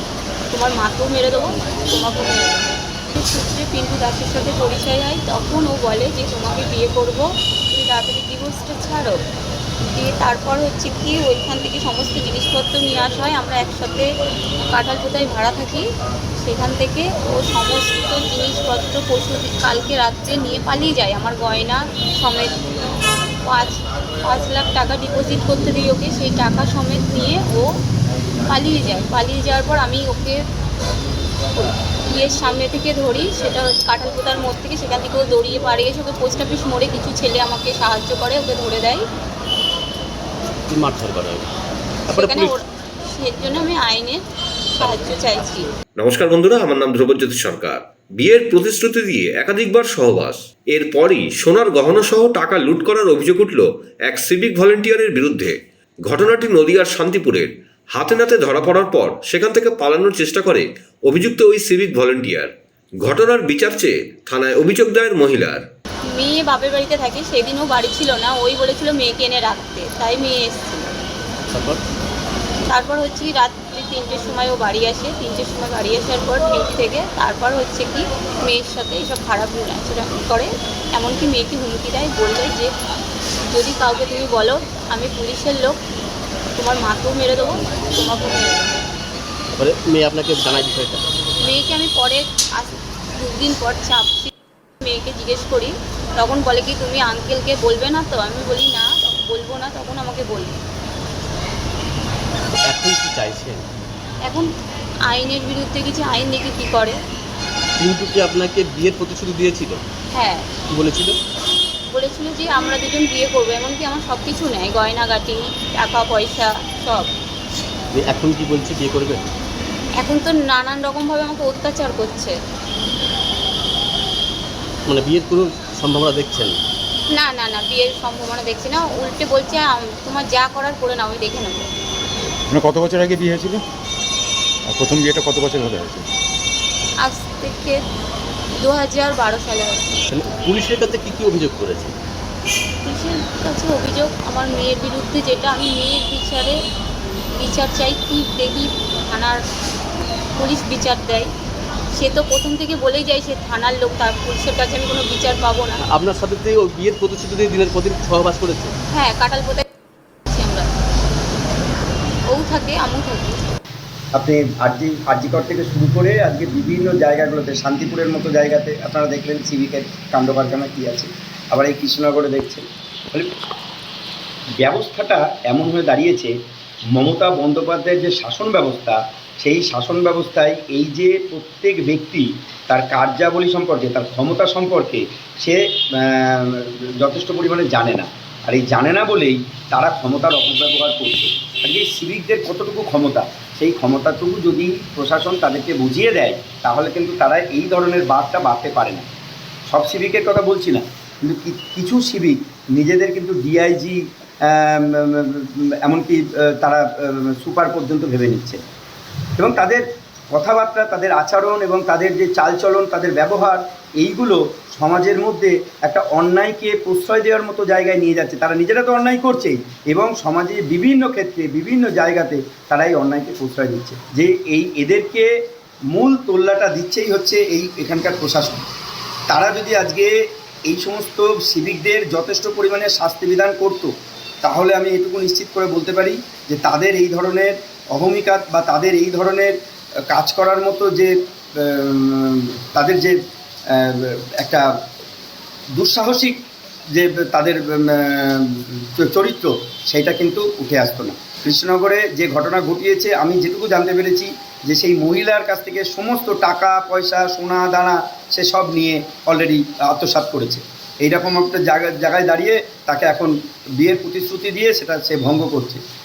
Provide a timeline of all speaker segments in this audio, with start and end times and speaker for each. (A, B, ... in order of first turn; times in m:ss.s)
0:00.5-0:09.2 A
0:09.9-0:14.1 A
0:14.7-0:15.8 A
0:16.4-0:22.6 A
0:23.4-0:27.7 A
0:28.5-0:30.4 A
0:31.5-0:39.0 A
0:40.7-0:41.5 B
0:42.1-0:42.5 B
0:42.1-0:44.2 A
0:44.8-0:45.7 A
0:46.0-1:02.5 C
1:03.0-1:05.6 C
1:06.1-1:10.9 A
1:11.5-1:11.8 B
1:12.7-1:22.7 A
1:23.5-1:25.8 A
1:26.6-1:28.8 A
1:29.6-1:31.0 B
1:31.4-1:40.6 A
1:42.7-1:43.7 B
1:45.1-1:47.0 A
1:47.8-1:49.8 B
1:50.1-1:50.5 A
1:50.7-1:51.2 B
1:51.9-1:57.1 A
1:57.9-1:59.3 B
2:00.0-2:02.4 A
2:04.9-2:06.6 B
2:07.1-2:11.7 A
2:12.5-2:13.6 D
2:14.7-2:16.1 D
2:17.0-2:17.8 A
2:18.6-2:19.9 A
2:20.1-2:21.9 B
2:22.8-2:26.6 A
2:27.3-2:29.4 A
2:30.4-2:31.3 A
2:32.0-2:35.8 A
2:35.9-2:38.8 B
2:38.9-2:39.6 A
2:40.3-2:40.7 A
2:42.3-2:43.4 A
2:44.2-2:53.3 E
2:54.6-2:56.3 E
2:57.0-3:19.1 E
3:19.7-3:28.6 E
3:29.4-3:45.3 E
3:45.9-3:48.6 E
3:49.3-3:50.1 E
3:50.7-3:53.9 E
3:54.4-3:59.5 E
4:00.1-4:03.2 E
4:03.7-4:04.7 E
4:05.8-4:06.4 E
4:06.9-4:25.8 E